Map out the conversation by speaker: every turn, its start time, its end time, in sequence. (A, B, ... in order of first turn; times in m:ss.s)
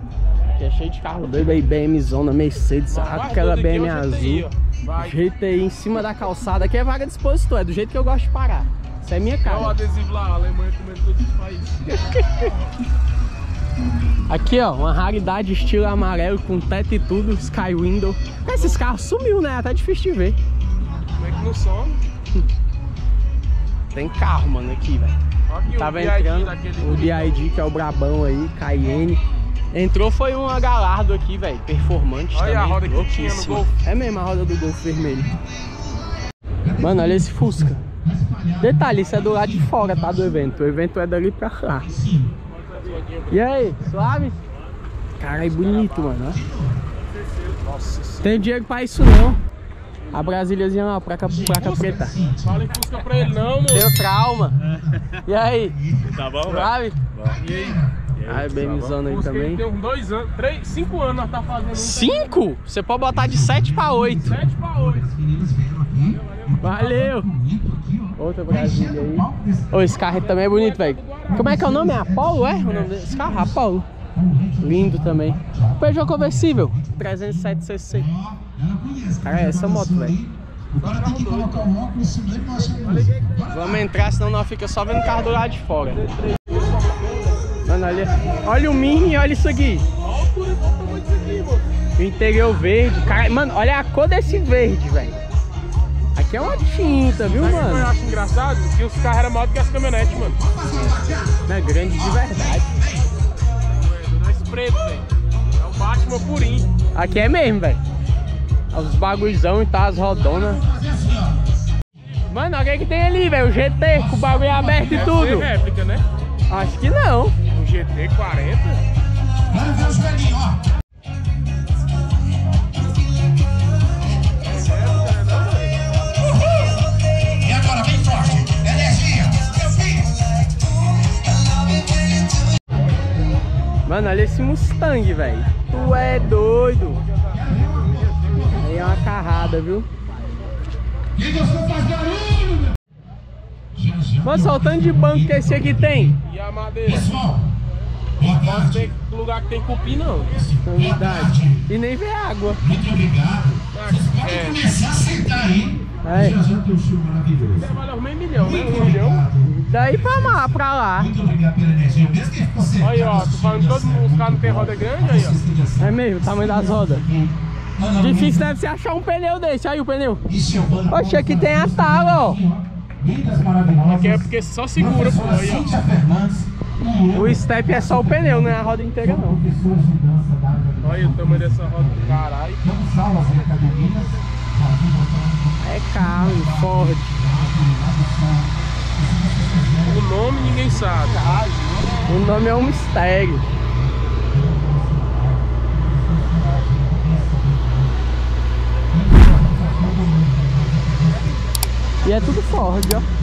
0:00.5-0:09.8 A
0:02.9-0:05.2 B
0:09.4-0:11.8 B
0:11.9-0:12.4 A
0:14.3-0:20.4 A
0:18.5-0:18.9 B
0:21.1-0:22.0 B
0:23.9-0:25.2 A
0:25.5-0:27.5 B
0:25.8-0:35.4 A
0:32.3-0:33.7 B
0:36.6-0:40.2 C
0:36.8-0:37.8 A
0:38.6-0:41.9 A
0:41.9-0:42.3 C
0:42.7-0:43.7 B
0:43.3-0:44.4 A
0:45.2-0:46.4 A
0:46.4-0:46.8 C
0:47.5-0:48.3 B
0:48.2-0:49.4 A
0:50.1-0:52.2 A
0:51.3-0:52.5 C
0:52.4-0:54.0 B
0:53.6-0:55.8 A
0:55.9-0:56.4 C
0:56.2-0:56.5 B
0:56.4-0:57.0 A
0:57.2-0:58.4 C
0:57.2-1:02.4 B
0:58.2-0:59.6 A
1:01.7-1:04.4 A
1:03.2-1:09.8 C
1:04.2-1:05.1 B
1:06.1-1:06.7 B
1:06.6-1:07.3 A
1:08.2-1:13.9 A
1:09.9-1:11.6 B
1:11.4-1:13.6 C
1:14.2-1:17.0 C
1:14.6-1:18.3 A
1:18.1-1:23.9 C
1:19.1-1:20.2 A
1:20.8-1:21.8 B
1:22.6-1:23.3 B
1:23.4-1:26.1 A
1:26.0-1:27.5 B
1:27.6-1:29.9 A
1:30.0-1:31.7 B
1:32.0-1:35.2 A
1:36.2-1:37.9 A
1:37.2-1:40.4 B
1:40.4-1:41.4 C
1:41.4-1:42.8 A
1:42.1-1:43.1 C
1:43.7-1:46.7 B
1:46.9-1:47.8 A
1:48.7-1:50.7 A
1:50.4-1:51.4 C
1:52.3-1:55.5 A
1:54.1-1:55.0 C
1:54.8-1:56.0 B
1:56.5-1:57.4 A
1:57.5-1:58.9 B
1:59.5-2:00.6 C
2:04.4-2:05.9 B
2:07.3-2:10.1 C
2:13.9-2:17.0 A
2:17.3-2:19.0 C
2:18.5-2:19.9 A
2:21.2-2:22.7 C
2:23.8-2:26.2 C
2:24.2-2:26.2 A
2:26.2-2:27.1 B
2:26.9-2:27.5 C
2:28.2-2:28.9 C
2:28.2-2:30.4 B
2:30.4-2:31.6 C
2:30.6-2:32.7 A
2:32.6-2:37.7 C
2:33.7-2:34.8 B
2:36.0-2:36.4 A
2:37.5-2:39.3 B
2:38.4-2:48.5 C
2:39.4-2:41.1 A
2:42.8-2:45.4 B
2:45.8-2:47.1 A
2:47.9-2:50.3 A
2:50.3-3:10.8 C
2:50.8-2:52.5 A
2:53.8-2:55.8 B
2:57.1-2:59.4 A
3:00.8-3:02.7 B
3:05.6-3:07.2 A
3:09.8-3:12.0 B
3:12.0-3:13.5 A
3:14.3-3:17.9 C
3:18.9-3:21.3 C
3:22.0-3:23.1 A